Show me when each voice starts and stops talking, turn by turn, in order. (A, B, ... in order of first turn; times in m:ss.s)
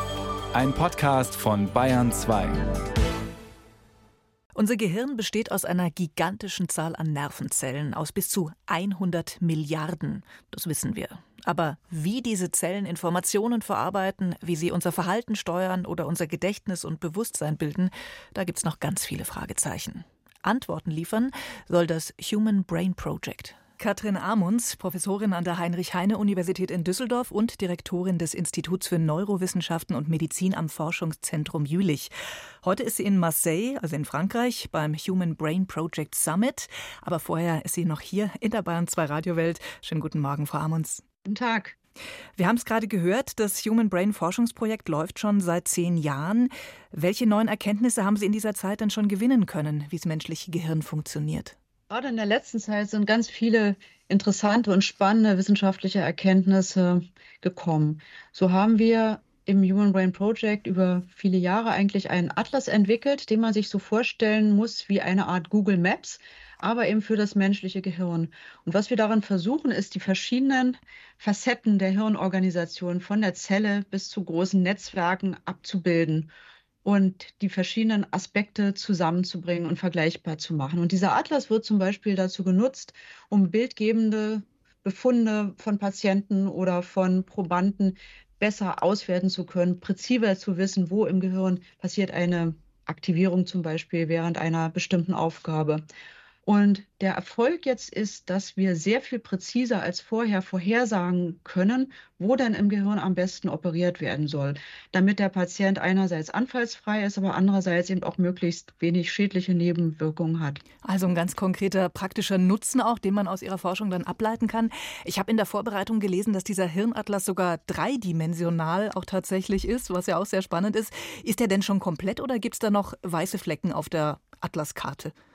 0:00.5-0:02.6 A
0:04.6-0:32.1 B
0:32.6-0:41.0 B
0:41.3-0:41.8 C
0:42.4-0:51.5 B
0:51.9-1:16.3 C
1:16.8-1:35.8 C
1:36.4-1:50.6 C
1:50.8-2:05.1 B